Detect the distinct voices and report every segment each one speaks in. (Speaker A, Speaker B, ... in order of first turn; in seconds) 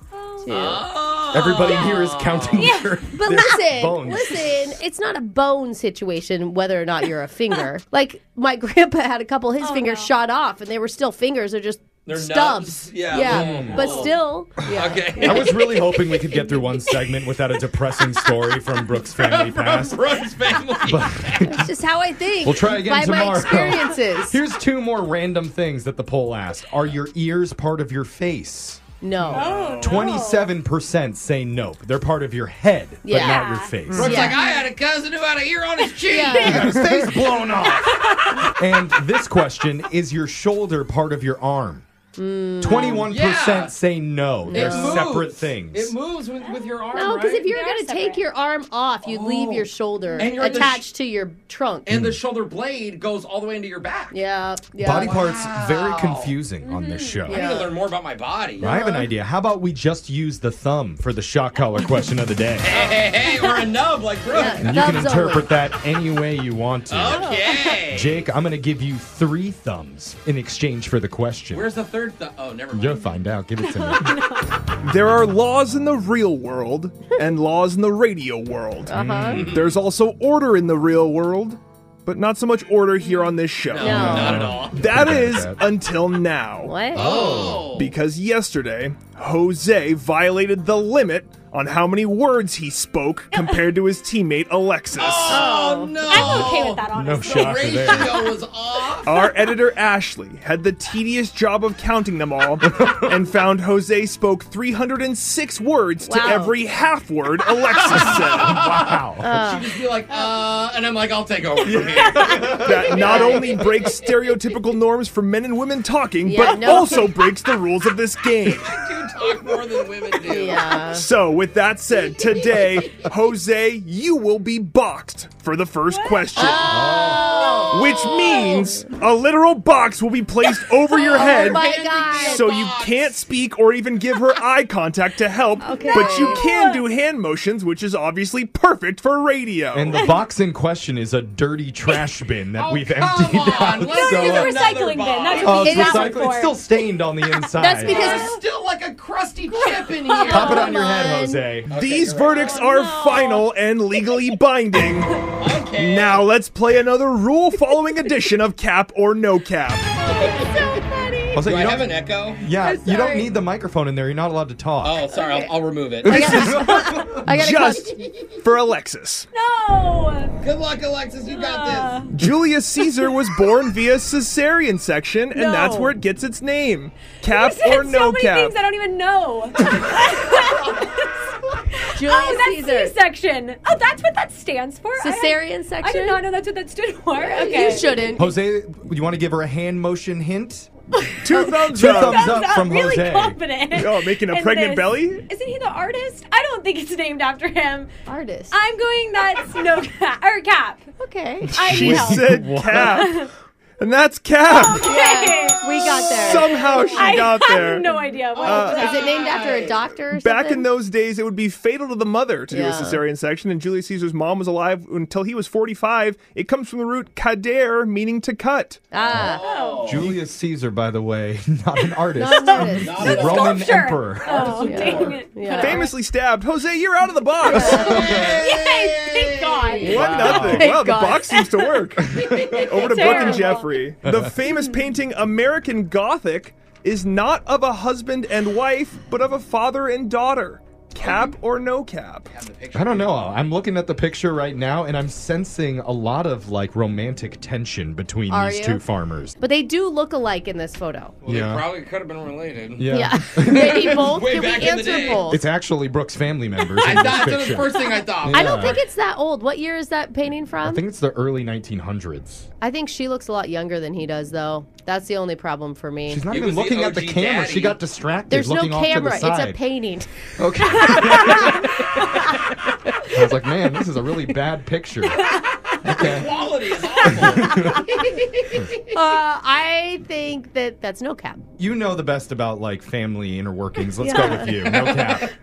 Speaker A: 0.1-0.8, 2.5-3.5, 9.6-10.1, 29.3-30.5, 33.1-34.7, 36.1-36.6, 37.6-38.5, 47.4-48.2, 50.1-50.7, 56.6-57.2, 67.2-67.7, 73.6-74.6, 93.3-93.7, 96.1-98.5, 111.6-113.6, 125.9-128.6, 135.8-136.9, 140.0-140.2, 143.8-146.6, 147.4-148.4, 149.5-150.7, 152.3-154.8, 160.0-160.8, 169.3-170.4, 171.3-172.1, 175.3-175.9, 177.2-188.1, 192.0-197.9, 198.5-200.8, 201.6-203.3, 204.5-209.2, 219.2-220.1, 222.2-225.9, 227.5-230.4, 232.7-233.8
Speaker B: 0.4-0.9, 3.1-15.9, 21.4-24.4, 29.0-29.5, 33.0-34.4, 36.1-36.9, 42.2-43.1, 44.5-45.0, 46.9-51.9, 54.1-55.2, 57.2-57.8, 58.6-59.1, 64.3-65.5, 78.9-79.4, 83.8-84.4, 86.7-87.1, 95.3-96.0, 106.0-106.5, 109.2-109.8, 112.9-113.6, 116.2-117.2, 120.2-121.0, 126.3-127.9, 131.1-132.5, 135.6-136.5, 145.7-146.1, 147.6-148.4, 150.2-151.4, 160.1-161.5, 162.5-163.3, 165.1-165.5, 166.0-168.0, 181.9-182.9, 185.0-186.2, 187.2-188.3, 198.1-198.6, 201.0-201.6, 204.8-207.1, 208.4-210.7, 212.5-213.0, 218.9-219.4, 222.2-223.3, 224.6-225.9, 227.4-228.2, 229.7-231.8, 248.3-248.8, 249.4-251.2, 252.9-255.4, 258.3-260.8, 262.6-266.2, 268.3-270.1, 270.7-272.4, 278.9-281.4, 284.0-284.6
Speaker C: 0.5-2.7, 12.1-14.2, 14.8-15.7, 19.2-21.6, 29.4-29.8, 33.9-37.6, 42.9-43.8, 44.5-47.5, 49.0-50.9, 51.9-54.1, 55.0-56.4, 57.3-58.6, 62.6-65.0, 66.9-68.3, 71.5-73.2, 79.1-79.7, 83.7-84.9, 86.9-87.9, 95.0-99.5, 107.7-113.8, 118.5-120.8, 130.9-133.2, 142.6-146.1, 147.9-150.9, 151.7-152.6, 155.4-156.3, 161.4-162.4, 164.8-167.1, 170.4-172.1, 208.3-209.8, 219.0-220.2, 222.7-225.3, 227.8-230.0, 232.1-232.9, 241.0-241.3, 242.3-243.3, 251.2-252.9, 253.6-255.4, 256.8-258.7, 266.3-267.8, 275.7-277.8, 284.7-285.2
Speaker D: 1.3-4.8, 13.2-14.1, 15.2-20.0, 20.9-21.7, 22.4-28.8, 29.8-34.2, 36.4-38.0, 38.5-41.9, 42.6-45.9, 51.9-52.2, 54.8-57.5, 58.6-62.7, 64.6-71.7, 72.7-74.2, 78.9-79.5, 83.9-85.6, 86.9-87.7, 96.1-98.3, 102.8-103.2, 108.0-109.4, 111.7-112.9, 126.7-127.2, 139.7-144.6, 145.4-148.1, 150.2-151.7, 161.3-165.1, 166.0-167.4, 188.2-190.7, 191.7-193.4, 201.6-202.9, 219.9-224.6, 227.7-228.4, 230.0-230.7, 232.0-232.6, 234.0-234.3, 242.7-249.3, 251.2-251.7, 252.8-254.1, 255.2-258.8, 260.6-262.5, 266.1-269.6, 270.4-271.8, 273.1-275.3, 275.8-276.3, 277.1-277.9, 281.6-285.3
Speaker E: 74.8-95.5, 99.0-108.6, 112.5-118.9, 120.9-127.0, 127.7-131.7, 132.2-140.0, 151.7-159.9, 167.3-169.3, 172.1-178.6, 191.2-192.5, 193.7-195.3, 201.5-203.3, 203.8-205.0, 205.7-209.0, 210.1-218.9, 225.6-228.3, 229.8-242.3